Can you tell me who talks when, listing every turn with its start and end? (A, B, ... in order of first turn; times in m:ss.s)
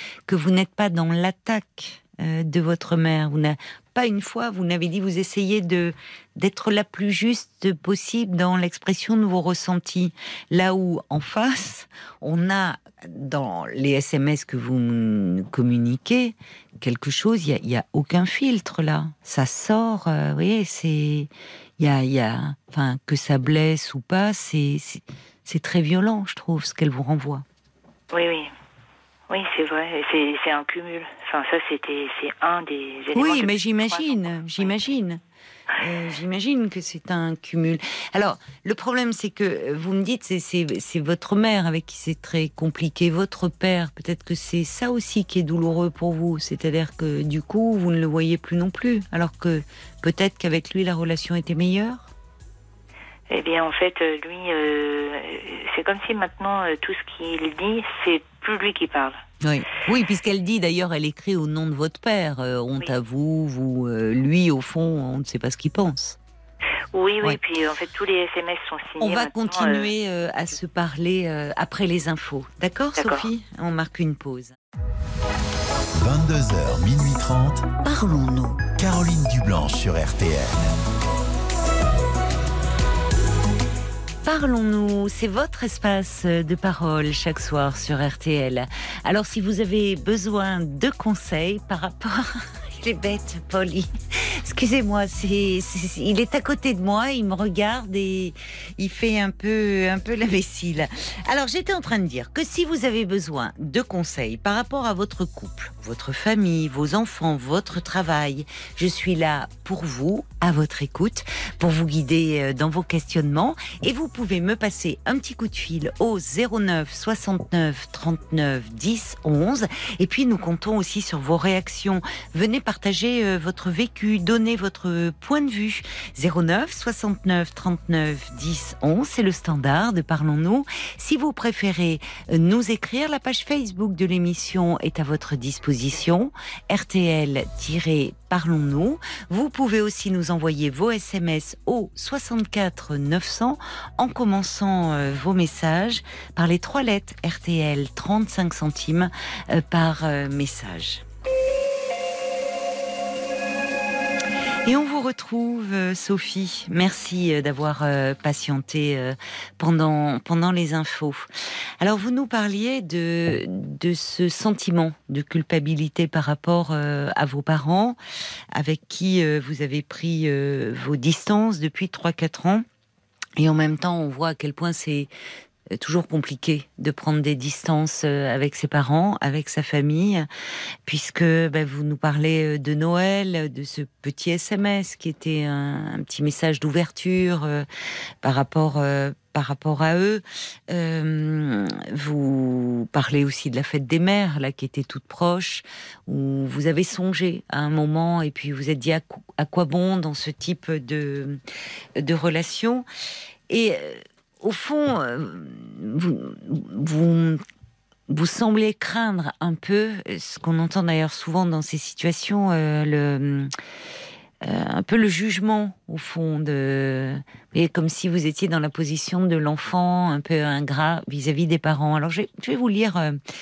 0:00.3-0:27.4 A
0:28.1-0:28.5 B
0:29.3-0:34.7 B
0:33.1-0:35.2 A
0:35.8-0:52.1 A
0:53.3-0:59.2 B
0:59.4-1:06.2 A
1:06.9-1:09.9 B
1:09.0-1:14.6 A
1:13.0-1:13.3 B
1:15.9-1:17.7 C
1:17.8-1:18.7 A
1:18.8-1:20.8 C
1:24.2-2:31.0 A
2:34.6-2:41.3 A
2:41.8-2:48.0 A
2:48.5-2:52.6 A
2:53.4-2:55.1 A
2:55.7-3:00.3 A
3:00.8-3:07.7 A
3:08.2-3:21.4 A
3:22.0-3:22.8 A
3:23.5-3:27.4 A
3:28.1-3:33.5 A
3:34.4-3:43.2 A